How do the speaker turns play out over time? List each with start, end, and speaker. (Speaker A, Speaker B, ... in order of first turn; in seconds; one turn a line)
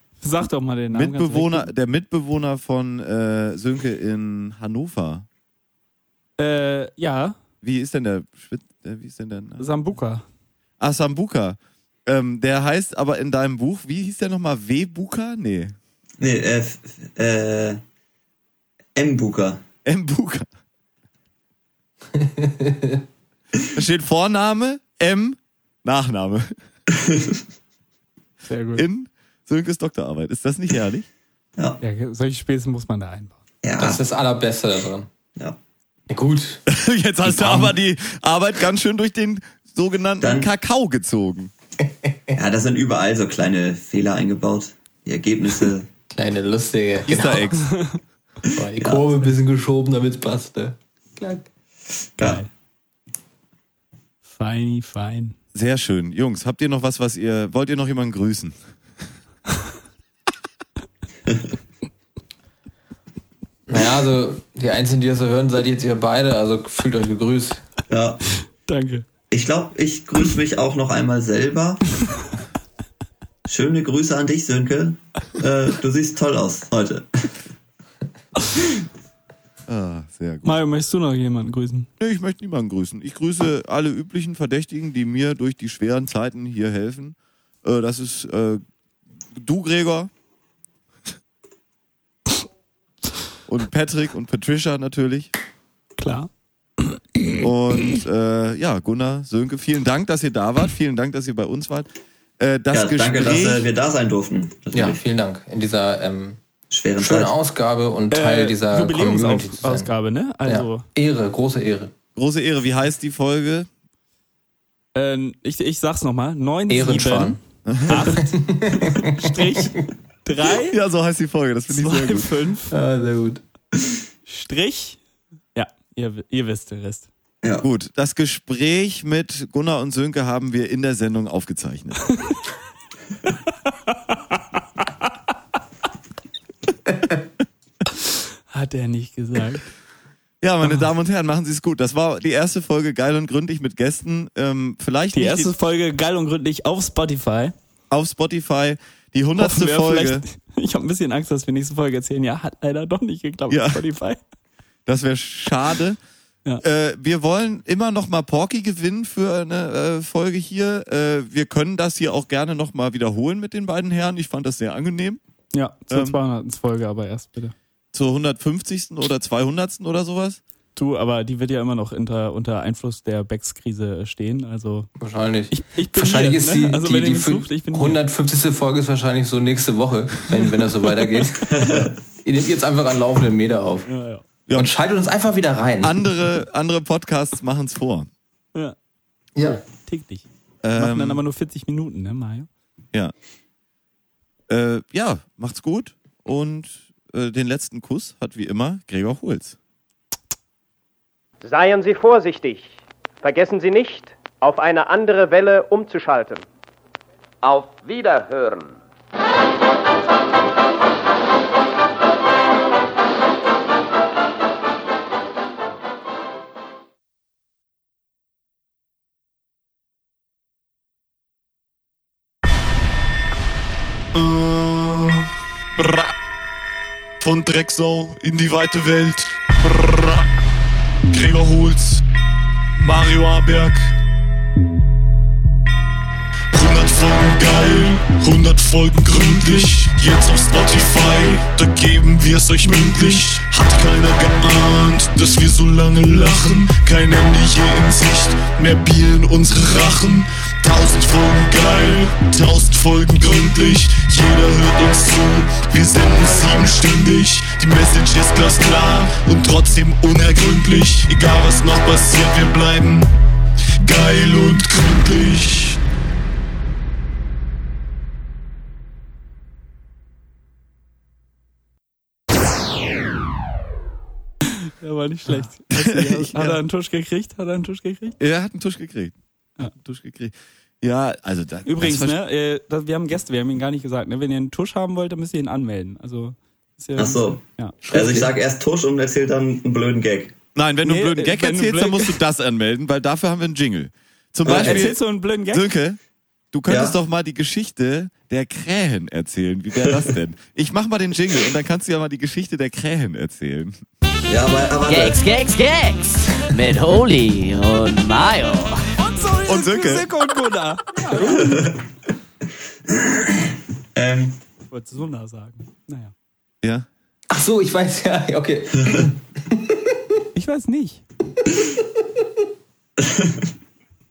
Speaker A: 0.2-1.7
Speaker B: 0.9-5.2
Speaker A: 6.4-7.3
Speaker B: 7.6-9.7
Speaker A: 9.6-10.2
Speaker B: 10.8-15.7
Speaker C: 16.2-17.8
Speaker C: 18.9-19.6
Speaker B: 19.8-20.5
Speaker D: 22.2-23.0
Speaker B: 23.7-26.5
Speaker C: 26.9-27.4
Speaker A: 28.4-28.8
Speaker B: 28.7-31.1
Speaker A: 31.8-33.4
Speaker C: 33.6-34.0
Speaker D: 33.8-35.1
Speaker D: 36.1-36.6
Speaker B: 36.7-41.5
Speaker D: 37.2-37.7
Speaker C: 40.2-40.5
Speaker C: 42.3-45.9
Speaker D: 46.1-47.6
Speaker B: 47.1-47.7
Speaker A: 47.6-48.0
Speaker D: 48.5-51.5
Speaker C: 48.8-49.1
Speaker A: 52.2-52.5
Speaker A: 54.2-55.4
Speaker B: 55.5-58.6
Speaker D: 63.7-67.6
Speaker C: 67.9-68.2
Speaker A: 68.7-69.0
Speaker C: 69.3-71.8
Speaker C: 73.5-77.3
Speaker B: 79.7-80.6
Speaker A: 80.4-81.9
Speaker B: 82.0-88.6
Speaker B: 89.3-90.1
Speaker B: 93.5-95.3
Speaker A: 96.0-96.3
Speaker B: 97.4-101.9
Speaker B: 102.4-103.7
Speaker C: 102.7-105.0
Speaker D: 104.7-106.4
Speaker C: 106.7-107.3
Speaker D: 107.0-109.9
Speaker A: 108.1-110.8
Speaker D: 110.4-111.9
Speaker B: 112.2-113.7
Speaker A: 114.9-120.8
Speaker D: 116.7-117.4
Speaker B: 117.7-118.1
Speaker D: 118.1-119.7
Speaker B: 120.7-122.3
Speaker A: 121.7-122.7
Speaker D: 122.7-123.4
Speaker A: 124.3-125.0
Speaker A: 125.5-127.1
Speaker B: 127.6-132.0
Speaker A: 138.5-139.7
Speaker B: 140.4-145.5
Speaker A: 145.1-147.5
Speaker B: 147.9-150.2
Speaker A: 149.4-154.2
Speaker B: 153.5-153.8
Speaker B: 154.8-156.0
Speaker B: 156.6-165.2
Speaker A: 165.5-167.5
Speaker B: 165.9-166.2
Speaker B: 167.9-170.4
Speaker A: 170.8-174.9
Speaker D: 175.0-183.9
Speaker A: 175.5-178.0
Speaker C: 181.5-181.9
Speaker A: 183.8-184.2
Speaker B: 184.5-184.7
Speaker D: 184.5-186.1
Speaker B: 185.8-188.1
Speaker D: 189.3-189.6
Speaker A: 189.4-190.2
Speaker B: 190.6-191.2
Speaker A: 190.8-192.5
Speaker B: 194.5-199.6
Speaker E: 201.4-206.4
Speaker E: 207.4-208.8
Speaker F: 224.1-226.1
Speaker F: 227.2-230.3
Speaker F: 231.1-232.0
Speaker F: 232.8-233.9
Speaker F: 236.5-263.1
Speaker F: 263.8-265.8
Speaker A: 274.8-278.2
Speaker B: 275.7-276.6
Speaker B: 278.2-282.2
Speaker A: 281.6-287.8
Speaker C: 286.9-290.3
Speaker D: 287.8-288.3
Speaker B: 290.5-296.0
Speaker A: 290.8-292.1
Speaker C: 294.4-294.9
Speaker A: 294.4-295.7
Speaker B: 296.5-303.8
Speaker C: 296.7-296.9
Speaker C: 304.3-305.2
Speaker G: 304.9-308.8
Speaker A: 309.0-311.6
Speaker B: 309.4-310.1
Speaker C: 311.1-311.8
Speaker C: 313.1-313.4
Speaker C: 313.9-314.4
Speaker A: 314.7-316.1
Speaker D: 317.3-319.8
Speaker A: 320.3-321.0
Speaker C: 323.0-323.5